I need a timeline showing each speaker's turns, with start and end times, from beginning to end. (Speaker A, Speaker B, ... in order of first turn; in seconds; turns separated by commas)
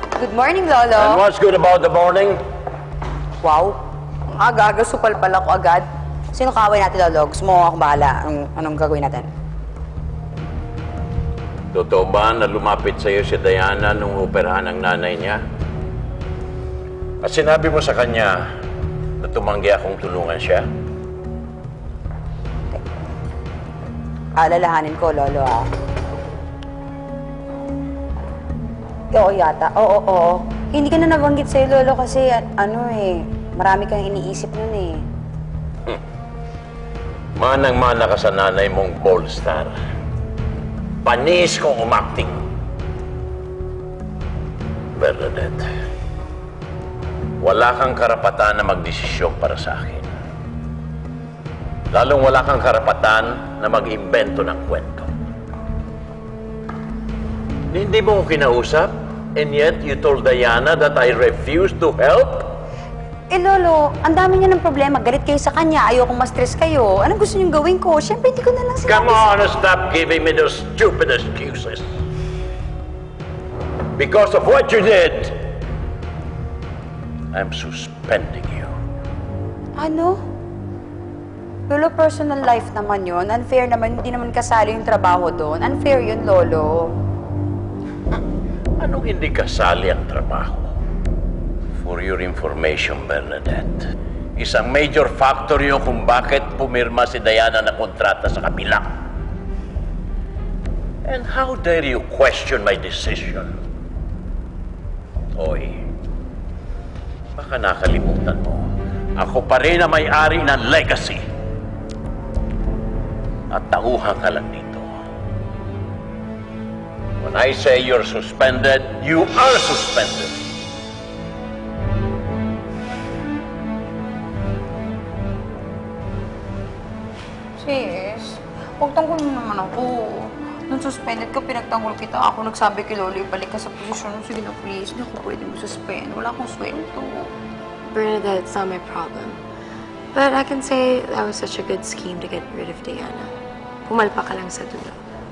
Speaker A: 0.2-1.2, Speaker B: 1.0-2.4, Speaker A: 3.4-3.8, Speaker A: 4.3-9.3, Speaker B: 11.7-15.4, Speaker B: 17.2-18.5, Speaker B: 19.2-20.7, Speaker A: 24.4-25.7, Speaker A: 29.1-35.0, Speaker B: 37.4-39.8, Speaker B: 41.0-42.4, Speaker B: 45.0-45.7, Speaker B: 47.4-50.1, Speaker B: 51.9-55.1, Speaker B: 57.7-62.6, Speaker A: 63.3-69.3, Speaker B: 68.9-71.8, Speaker B: 74.0-75.4, Speaker B: 77.3-78.7, Speaker A: 79.8-80.2, Speaker A: 81.7-87.0, Speaker B: 88.8-90.7, Speaker B: 91.8-98.9, Speaker B: 101.0-103.5, Speaker B: 105.3-105.9, Speaker B: 107.4-111.2, Speaker B: 113.5-114.9, Speaker B: 117.2-120.4, Speaker A: 127.6-137.3, Speaker C: 137.9-139.4, Speaker C: 140.1-143.3, Speaker C: 143.9-145.0